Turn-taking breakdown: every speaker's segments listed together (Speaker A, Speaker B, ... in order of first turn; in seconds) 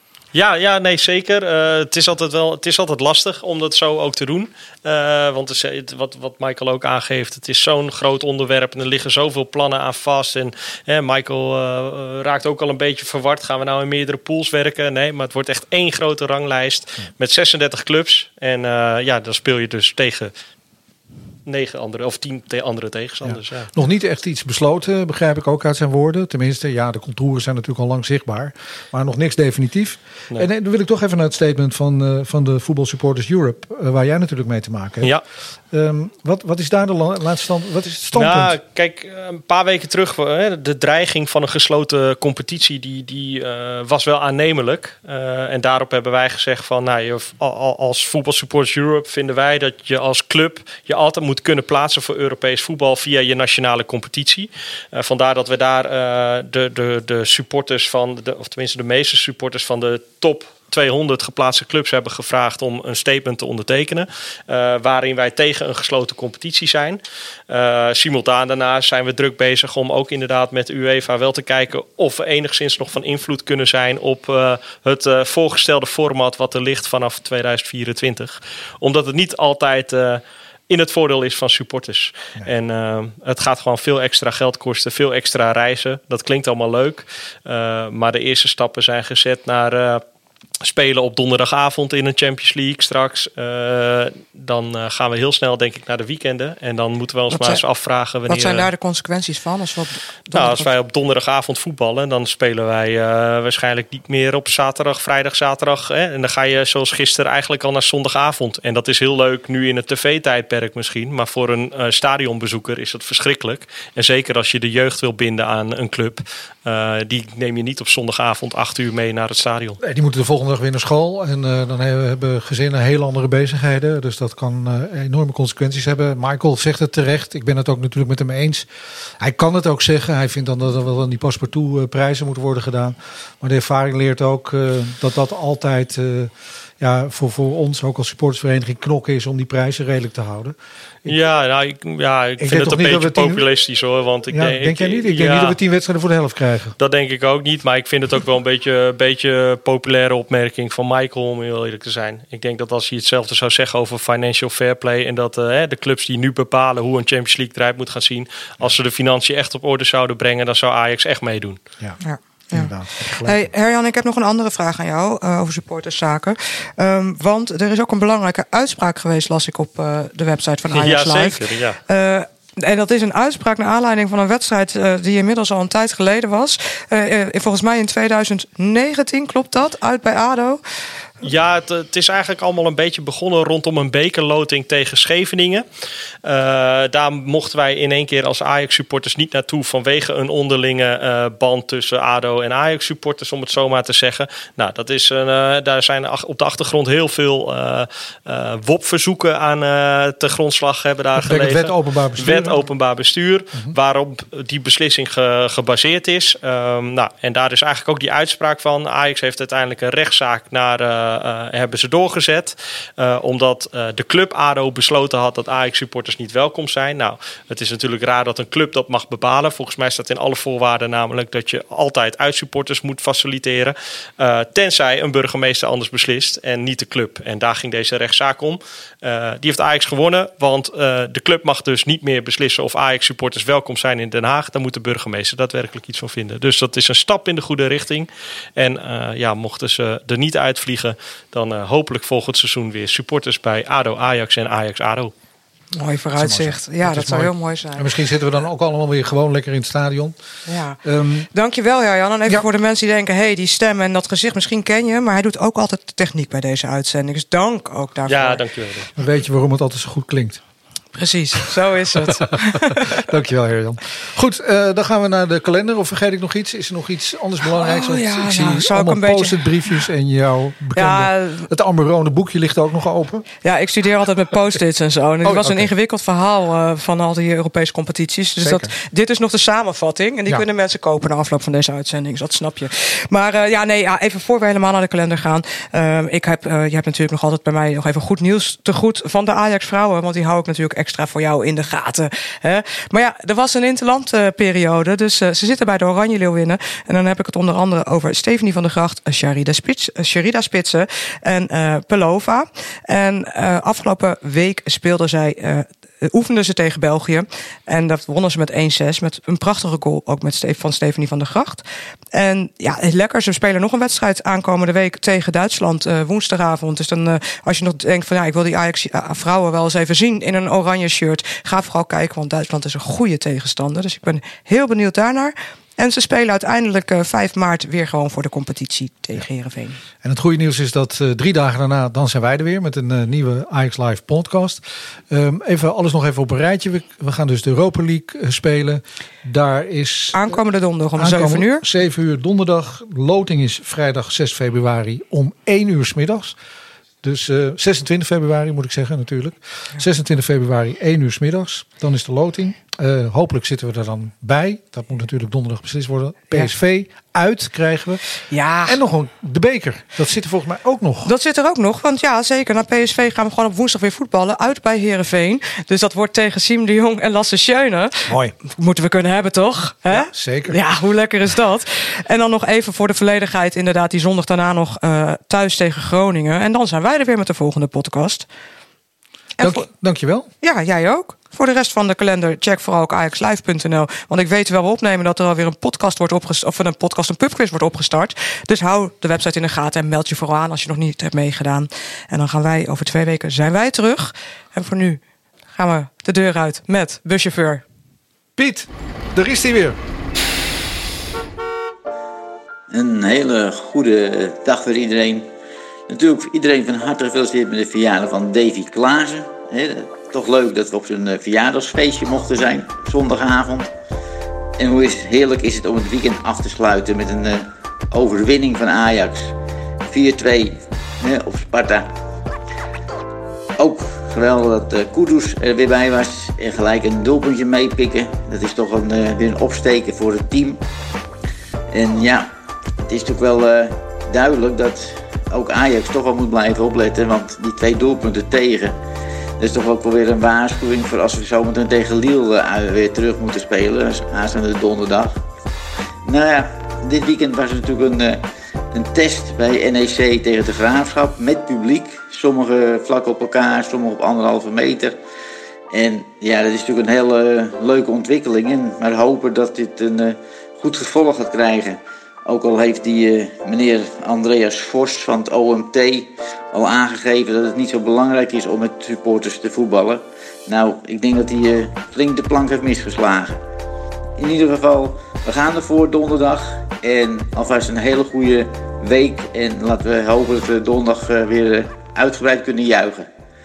Speaker A: 0.3-20.3, 21.4-23.7, 38.1-90.0, 90.6-98.7, 100.3-119.8, 141.1-145.6, 146.8-161.6, 170.7-171.8, 181.2-185.6, 186.2-245.1, 258.1-258.9
Speaker B: 23.2-35.2, 35.7-38.6, 119.8-128.7, 129.2-141.2, 142.4-143.4, 144.3-146.8, 162.5-163.4, 201.1-202.7, 246.1-250.2, 250.8-251.3, 258.9-260.4, 261.9-273.2, 275.2-275.7, 278.4-278.7, 330.0-340.4, 341.0-346.4, 347.0-358.0, 358.6-361.1, 368.1-368.3, 369.9-370.6, 379.4-380.3, 398.4-399.8
Speaker C: 97.3-97.6, 98.3-100.7, 162.0-180.6, 245.7-247.9, 250.4-250.8, 251.3-258.4, 260.9-263.0, 267.5-269.5, 270.8-271.5, 273.4-329.8, 340.1-341.6, 358.3-358.8, 361.0-378.2, 379.4-379.6, 380.4-395.0, 395.5-397.6
Speaker D: 402.7-405.3, 405.9-413.7, 414.6-419.3, 419.9-421.9, 423.6-430.6, 431.7-432.3, 432.8-438.7, 439.4-445.2, 446.1-448.2, 448.7-455.0, 455.7-473.4, 474.2-483.1